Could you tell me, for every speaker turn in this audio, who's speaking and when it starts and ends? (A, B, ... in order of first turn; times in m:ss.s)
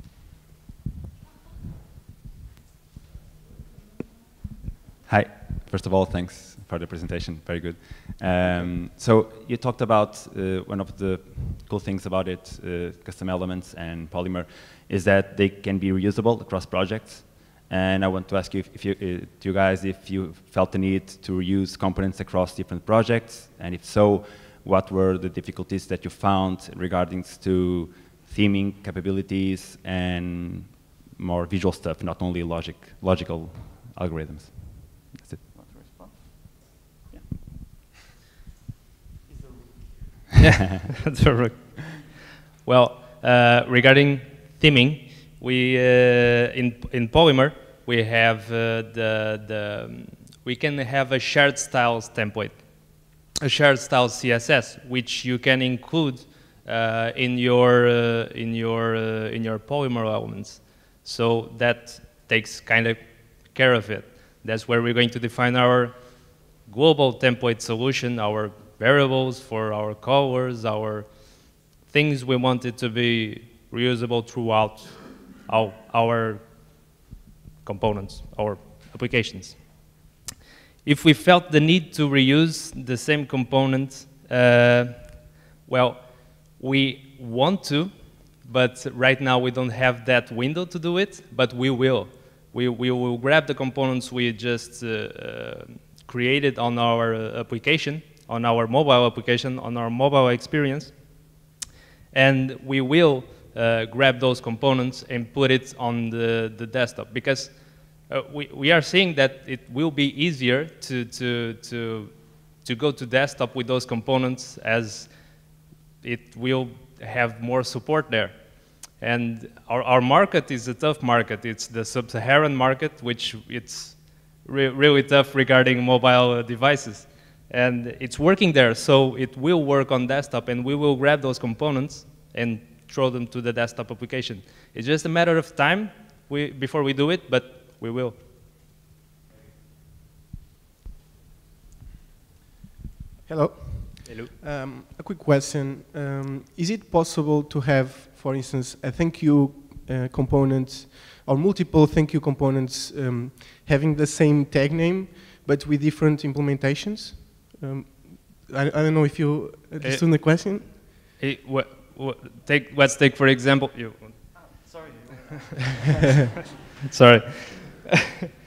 0:05.1-0:35.4 A
0:35.4-0:37.4 B
0:39.3-0:39.5 B
0:40.4-0:52.6 C
0:53.4-1:16.4 C
1:17.6-1:19.9 C
1:20.8-1:41.0 C
1:42.1-1:55.4 C
1:56.0-2:18.2 C
2:23.2-2:40.9 D
2:24.0-2:24.3 C
2:39.8-2:44.1 C
2:44.4-2:45.9 B
2:46.8-2:48.1 C